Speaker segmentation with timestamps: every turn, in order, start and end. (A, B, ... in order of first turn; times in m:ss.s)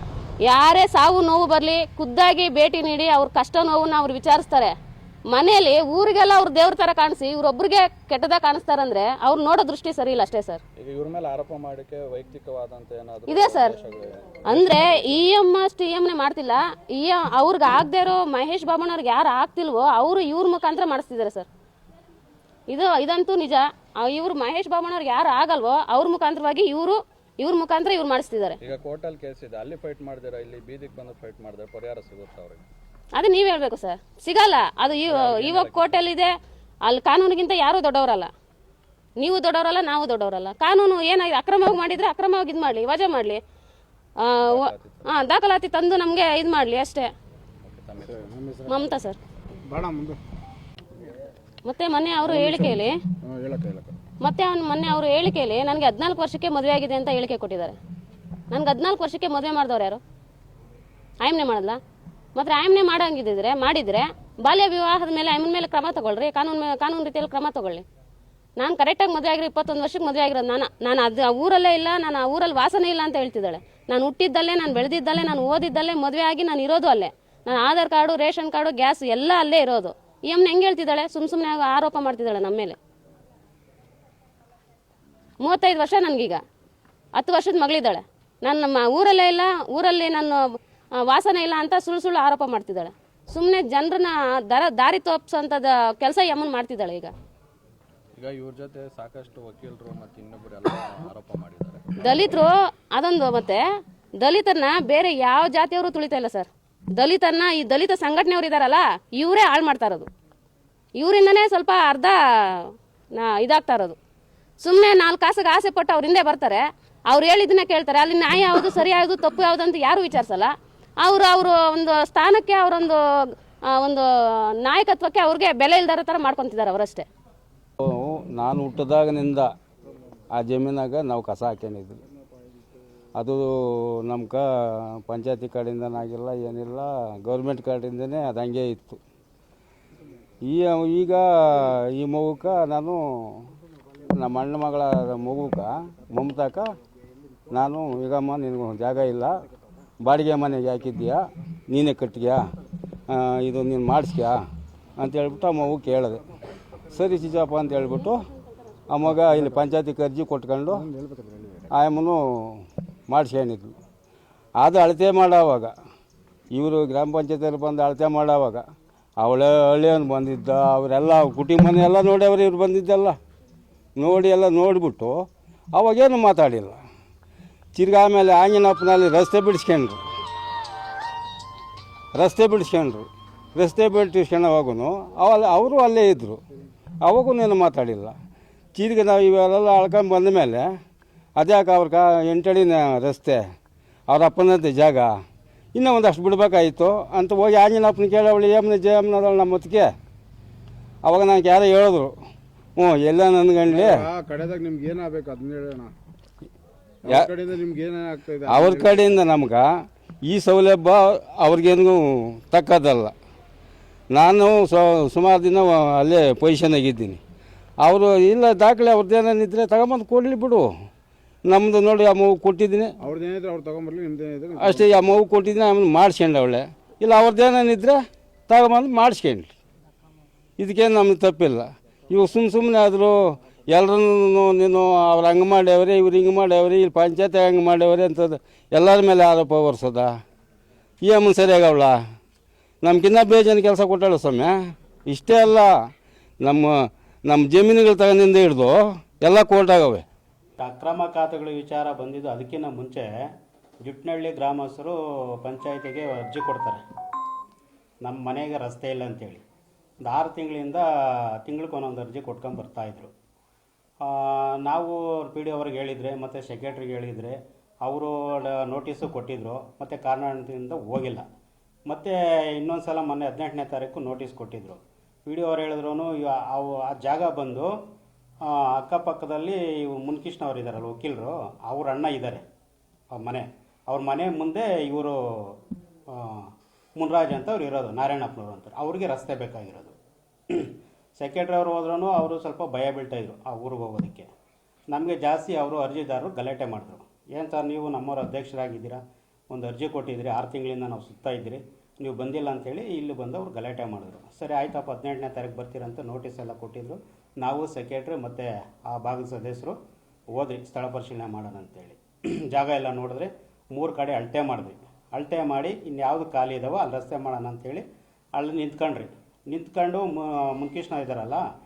0:00.4-0:04.7 A
0:05.3-0:10.6 A
0:10.8-0:15.2 B
0:13.3-0:13.7 A
0:14.5-0:21.5 A
0:22.7-0:28.6 A
0:28.6-0:32.6 B
0:33.1-0:38.3 A
0:35.1-0:36.0 B
0:39.2-0:43.4 A
0:44.2-0:47.1 A
0:44.5-0:45.1 B
0:47.6-0:48.3 B
0:48.0-0:48.8 C
0:48.7-0:49.2 A
0:49.7-0:50.2 C
0:51.6-0:53.0 A
0:52.2-0:54.0 C
0:54.2-0:57.8 A
0:58.5-1:00.0 A
1:01.2-1:01.8 A
1:02.3-1:07.8 A
1:08.6-1:22.8 A
1:25.4-1:26.4 A
1:27.1-1:30.4 A
1:31.0-1:37.1 A
1:38.2-1:42.5 B
1:42.0-1:43.6 A
1:44.2-1:50.1 A
1:51.0-1:54.0 A
1:54.6-2:07.0 A
2:07.8-2:09.5 D
2:10.3-2:12.0 D
2:13.1-2:19.0 D
2:20.4-2:23.5 D
2:24.0-2:26.7 D
2:27.5-2:29.3 D
2:30.0-2:32.4 D
2:33.1-2:34.4 D
2:35.0-2:36.2 D
2:36.9-2:38.2 D
2:38.9-2:40.8 D
2:39.0-2:39.6 C
2:40.7-2:41.7 C
2:41.7-2:43.7 D
2:44.6-2:45.7 D
2:46.5-2:48.6 D
2:49.2-2:53.2 D
2:54.0-2:56.8 D
2:57.7-3:00.0 D
3:02.1-3:06.4 D
3:07.0-3:08.2 D
3:08.7-3:10.7 D
3:11.4-3:13.4 D
3:14.1-3:15.1 D
3:15.7-3:19.9 D
3:21.0-3:22.1 D
3:22.8-3:24.1 D
3:23.7-3:25.9 C
3:27.0-3:27.3 D
3:27.0-3:29.1 C
3:28.4-3:33.1 D
3:34.1-3:37.2 D
3:37.8-3:40.7 D
3:41.4-3:42.9 D
3:43.0-3:45.2 C
3:44.6-3:49.5 D
3:50.6-4:00.1 D
4:01.0-4:01.9 D
4:02.8-4:05.7 D
4:06.4-4:10.0 D
4:10.6-4:13.1 E
4:13.8-4:16.8 E
4:18.0-4:19.4 E
4:20.0-4:23.1 E
4:24.0-4:31.2 E
4:31.8-4:37.8 E
4:38.4-4:42.4 E
4:43.1-4:45.6 E
4:46.1-4:49.9 E
4:50.5-4:54.3 E
4:54.9-5:09.8 E
5:10.3-5:21.4 E